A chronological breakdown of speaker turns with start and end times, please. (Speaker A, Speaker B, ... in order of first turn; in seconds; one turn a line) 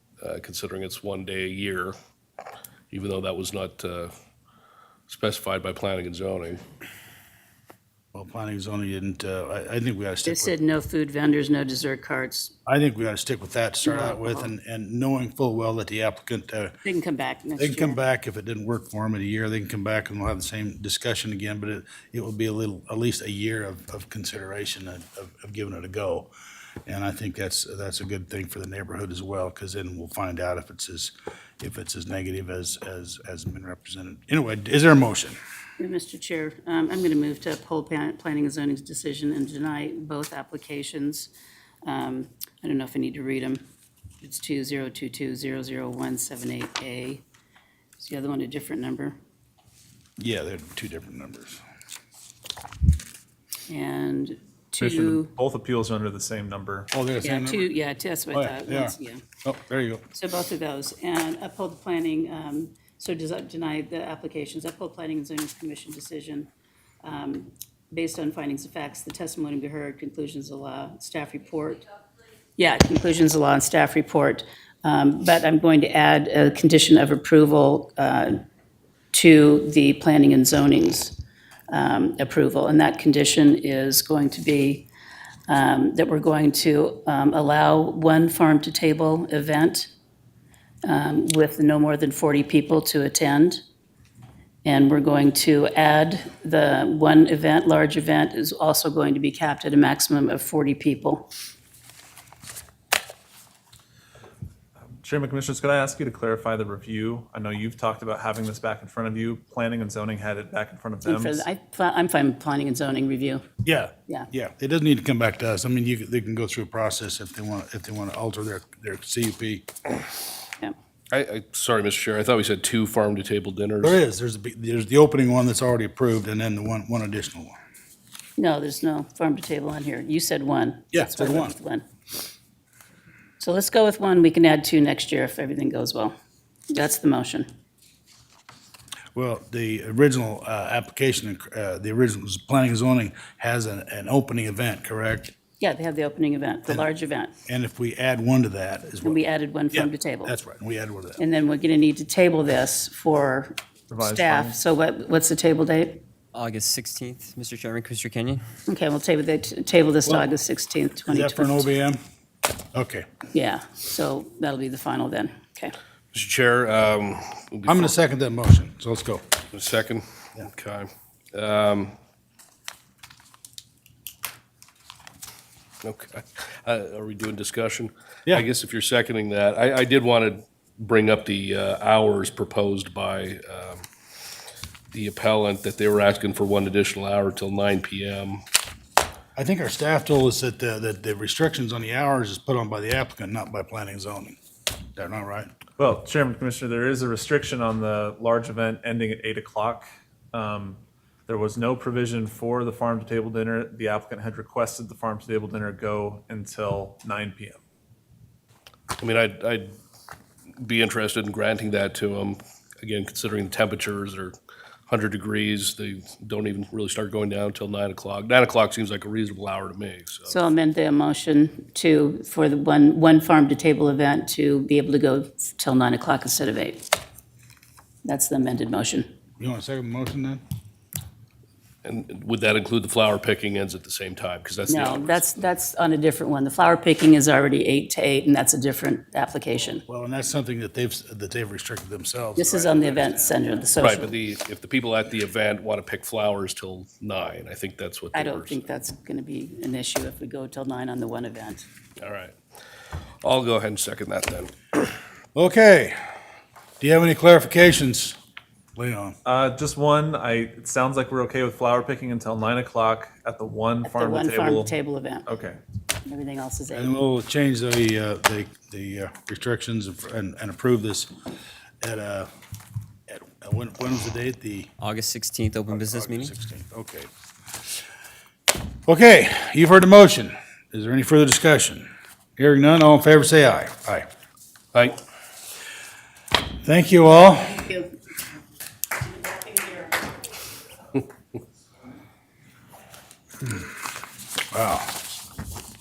Speaker A: 0.2-1.9
Speaker A: 2.9-4.1
Speaker A: 5.1-6.6
Speaker B: 8.1-10.5
Speaker C: 10.2-12.5
Speaker B: 12.7-16.8
Speaker C: 13.8-14.5
Speaker C: 16.8-18.0
Speaker B: 17.6-26.3
Speaker B: 26.9-35.4
Speaker C: 35.8-41.3
Speaker C: 41.8-43.6
Speaker C: 44.2-47.2
Speaker C: 48.0-49.1
Speaker B: 50.2-51.6
Speaker C: 53.7-55.3
Speaker D: 54.8-56.9
Speaker B: 56.9-57.7
Speaker C: 57.2-59.2
Speaker B: 58.3-60.0
Speaker C: 60.1-66.5
Speaker C: 67.0-71.8
Speaker C: 72.6-78.4
Speaker C: 79.1-81.2
Speaker C: 81.7-84.9
Speaker C: 85.5-89.9
Speaker C: 90.8-93.6
Speaker C: 94.6-101.3
Speaker D: 105.0-111.4
Speaker C: 111.0-113.5
Speaker B: 113.6-119.7
Speaker A: 121.1-124.0
Speaker B: 123.8-127.5
Speaker C: 128.4-131.8
Speaker B: 130.9-131.5
Speaker C: 133.4-136.1
Speaker C: 136.7-137.5
Speaker B: 139.1-145.3
Speaker C: 145.6-147.3
Speaker B: 147.5-149.2
Speaker C: 149.0-150.3
Speaker B: 149.7-151.2
Speaker C: 151.2-156.0
Speaker D: 153.9-154.5
Speaker E: 156.3-158.4
Speaker C: 158.7-161.7
Speaker B: 161.1-162.0
Speaker B: 162.7-163.1
Speaker C: 163.3-165.7
Speaker A: 166.1-167.9
Speaker B: 167.7-169.3
Speaker A: 169.5-171.9
Speaker A: 175.8-183.8
Speaker A: 184.9-188.4
Speaker B: 189.3-194.4
Speaker B: 194.9-195.5
Speaker D: 195.8-207.5
Speaker A: 209.0-209.8
Speaker A: 210.6-214.3
Speaker A: 214.9-220.4
Speaker C: 220.3-226.9
Speaker C: 228.0-229.1
Speaker B: 229.4-230.4
Speaker A: 231.8-235.2
Speaker C: 234.7-239.8
Speaker B: 239.9-243.4
Speaker C: 242.3-244.1
Speaker A: 243.8-248.7
Speaker C: 248.1-251.7
Speaker A: 252.0-252.3
Speaker A: 253.2-254.8
Speaker B: 255.3-256.0
Speaker B: 256.8-258.2
Speaker B: 258.8-259.2
Speaker D: 259.3-264.7
Speaker C: 263.8-265.3
Speaker D: 265.3-265.6
Speaker C: 266.0-266.9
Speaker B: 266.7-271.1
Speaker B: 271.8-272.3
Speaker B: 273.1-274.7
Speaker E: 274.8-276.3
Speaker B: 275.7-277.1
Speaker B: 278.9-284.1
Speaker B: 286.6-287.9
Speaker C: 289.2-289.9
Speaker B: 294.5-295.0